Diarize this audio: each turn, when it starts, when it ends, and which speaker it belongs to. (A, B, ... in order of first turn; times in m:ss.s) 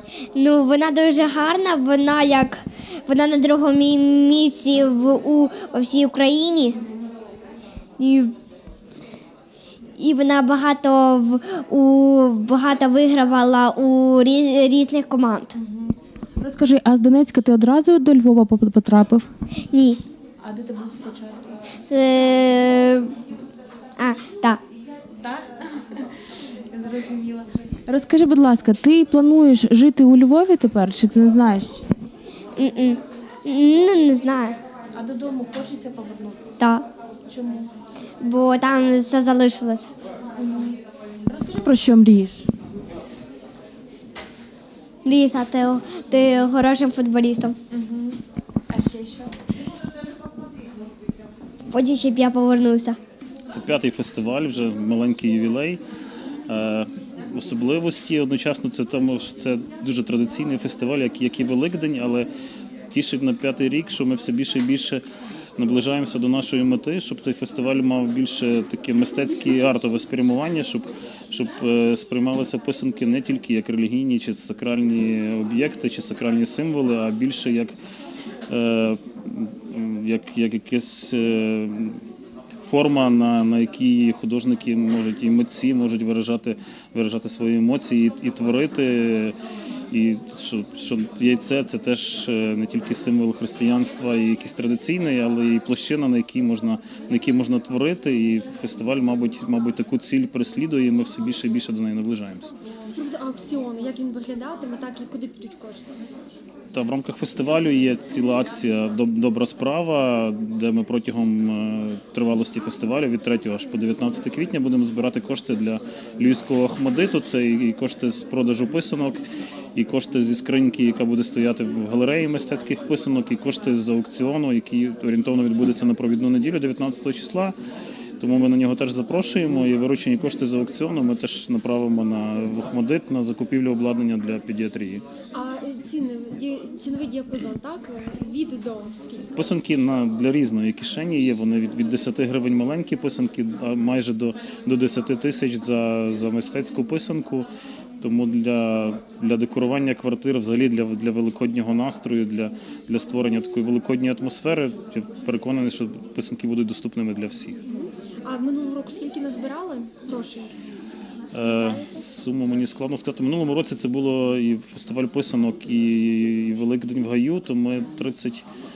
0:00.3-0:06.7 A
0:06.8-0:07.1 B
0:08.0-0:08.3 A
0:10.0-0:15.5 A
0:15.6-0:19.3 B
0:19.7-0:20.0 A
0:20.4-0:21.6 B
0:21.9-0:23.1 A
0:24.0-0:24.6 A
0:25.2-0:26.0 B
0:26.7-0:31.8 B
0:32.6-0:34.6 A
0:34.9-0:36.6 B
0:36.6-0:36.8 A
0:37.2-0:37.7 B
0:38.2-0:39.9 A
0:40.4-0:42.5 B
0:45.0-0:47.6 A
0:47.7-0:48.2 B
0:48.7-0:49.4 B
0:51.7-0:53.0 A
0:53.5-0:55.8 C
0:56.5-1:02.3 C
1:02.9-1:05.0 C
1:05.6-1:17.7 C
1:18.5-1:22.0 C
1:22.6-1:29.3 C
1:29.9-1:42.5 C
1:42.9-1:46.0 D
1:46.7-1:59.2 C
1:59.8-2:07.5 C
2:08.2-2:15.0 C
2:15.3-2:19.5 D
2:19.3-2:27.5 C
2:28.0-2:37.6 C
2:37.7-2:40.5 D
2:41.3-2:48.4 C
2:41.4-2:41.9 D